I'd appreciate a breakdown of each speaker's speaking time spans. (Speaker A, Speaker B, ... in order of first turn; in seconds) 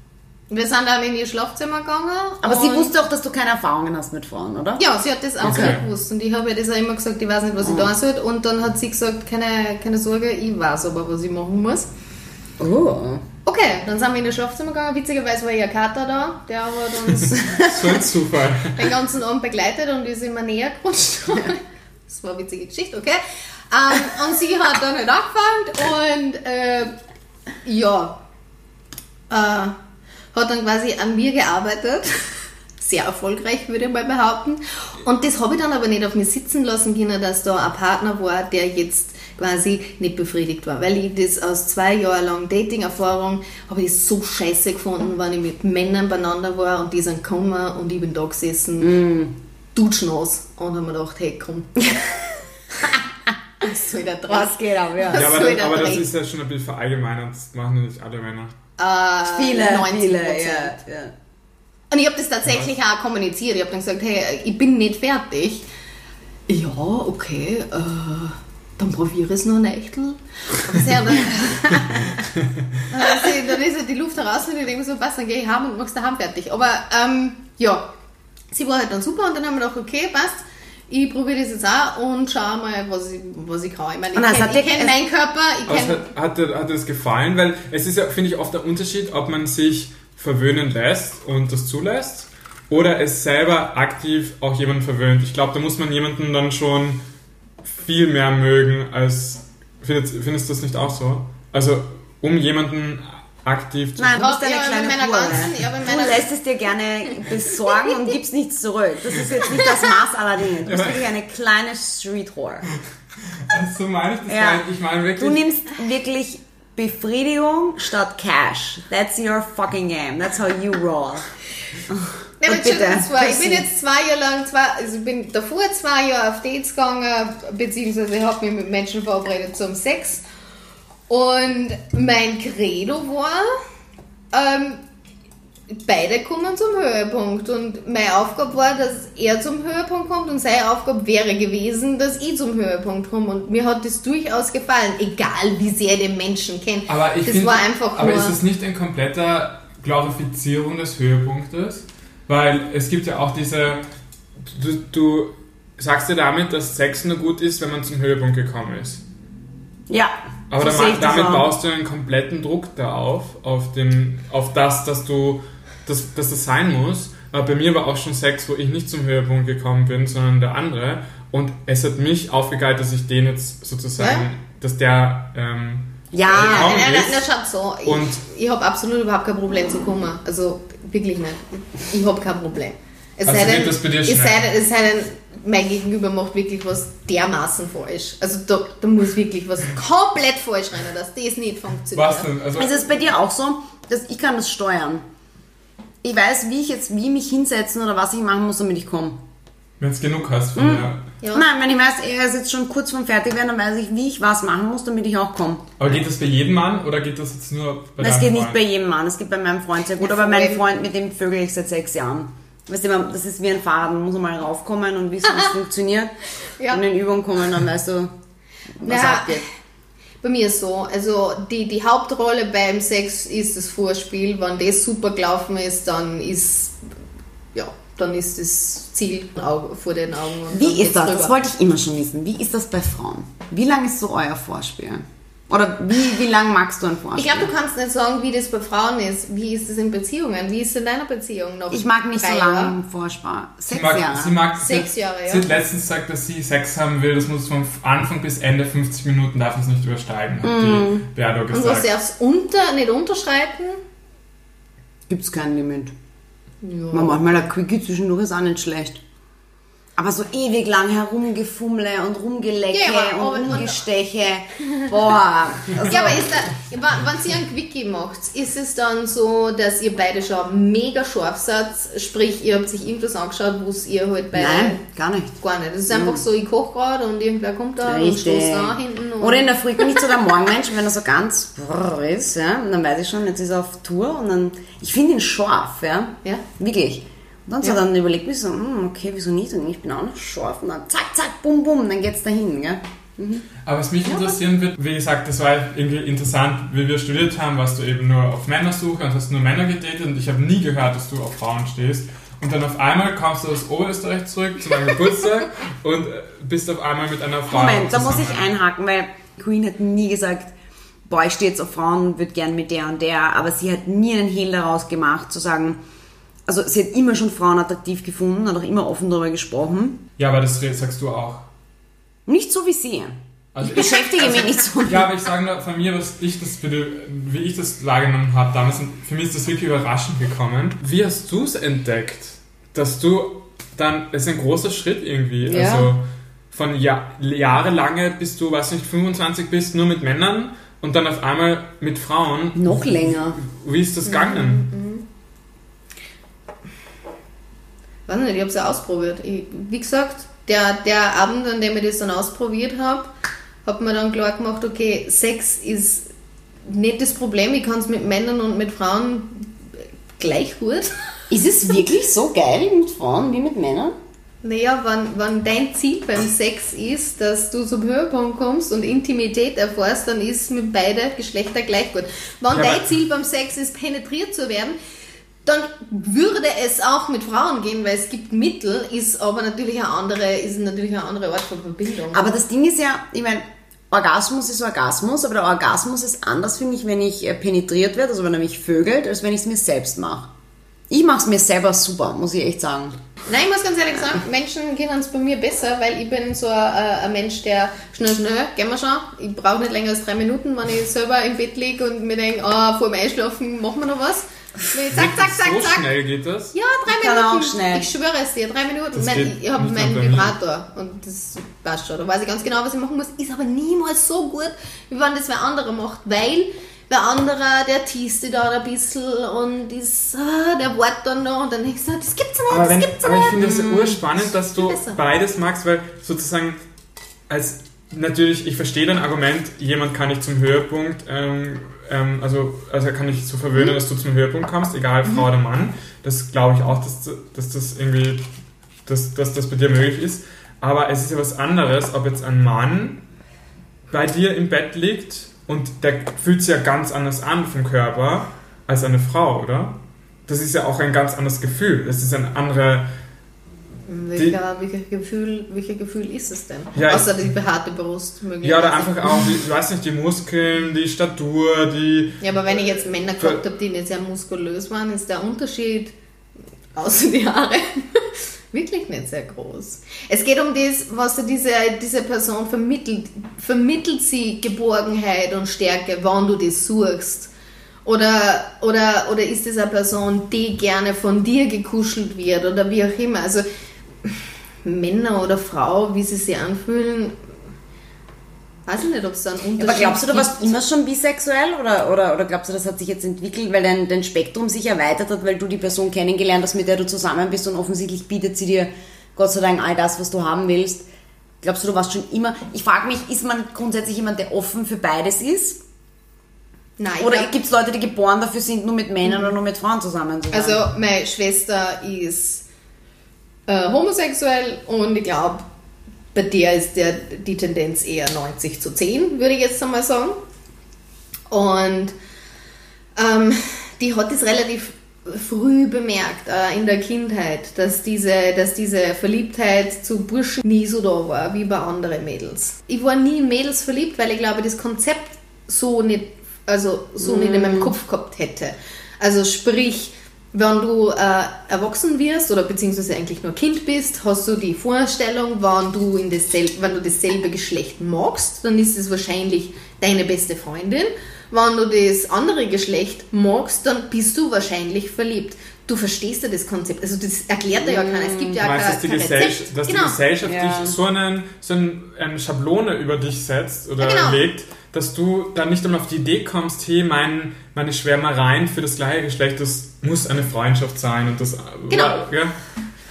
Speaker A: 0.5-2.9, 4.8-11.9, 13.4-17.9, 18.7-26.9, 27.6-28.2, 29.3-29.8, 30.3-49.0, 49.7-51.9, 53.6-56.1, 58.8-60.8, 61.9-65.7, 66.5-72.3, 72.9-77.9, 78.5-86.0, 104.2-106.3, 122.4-130.2, 131.1-133.6, 134.3-134.8, 135.7-148.4, 174.0-174.3, 176.3-192.3, 210.0-210.6, 218.8-219.4, 220.2-226.8, 227.5-231.3, 237.2-242.8, 244.6-245.5, 251.5-253.8, 256.6-257.4, 262.7-263.9, 265.8-274.8, 275.4-280.1, 294.1-294.3, 344.1-345.1, 348.1-353.1, 353.6-356.1, 356.6-359.5, 360.2-360.9, 364.4-374.8, 375.4-382.3, 393.3-405.9, 406.5-425.0, 453.9-459.3, 462.2-465.9, 466.8-477.3, 477.9-483.4, 484.0-487.2, 488.7-490.6, 506.8-507.3, 510.3-512.5, 513.5-515.5, 516.1-520.2, 521.3-521.9, 523.0-560.0, 563.8-564.2, 571.7-572.0
Speaker B: 2.4-4.8, 7.6-7.9, 12.6-13.2, 48.8-49.4, 52.8-53.3, 54.3-55.3, 59.2-61.1, 84.2-85.0, 104.0-112.7, 114.3-114.7, 115.2-121.3, 121.9-123.7, 159.9-161.5, 176.1-176.8, 192.6-195.1, 196.0-199.2, 200.6-205.7, 208.0-216.2, 216.7-218.1, 218.8-219.4, 230.5-237.5, 241.7-244.4, 250.4-251.1, 255.1-255.9, 256.9-259.0, 260.0-266.3, 274.4-275.3, 275.9-276.2, 277.8-293.5, 307.5-310.5, 311.1-315.8, 316.5-320.0, 322.3-325.1, 335.4-335.9, 342.6-343.4, 361.3-363.9, 382.1-390.3, 390.9-393.0, 406.9-407.9, 489.6-500.9, 501.4-505.6, 507.0-510.6, 537.0-537.7, 557.6-558.4, 560.2-560.8
Speaker C: 5.4-5.9, 17.1-19.0, 55.1-58.6, 85.7-97.0, 97.6-104.2, 110.7-111.1, 113.4-115.4, 146.9-153.8, 154.4-159.0, 160.5-177.2, 177.8-178.2, 183.3-184.5, 191.9-192.9, 199.8-201.1, 205.8-208.6, 243.7-251.9, 293.6-308.5, 320.2-321.5, 323.5-344.7, 372.5-372.9, 404.9-406.6, 408.9-410.4, 422.5-426.6, 427.3-438.3, 438.9-443.0, 443.9-452.9, 456.8-457.1, 458.4-462.3, 558.4-572.4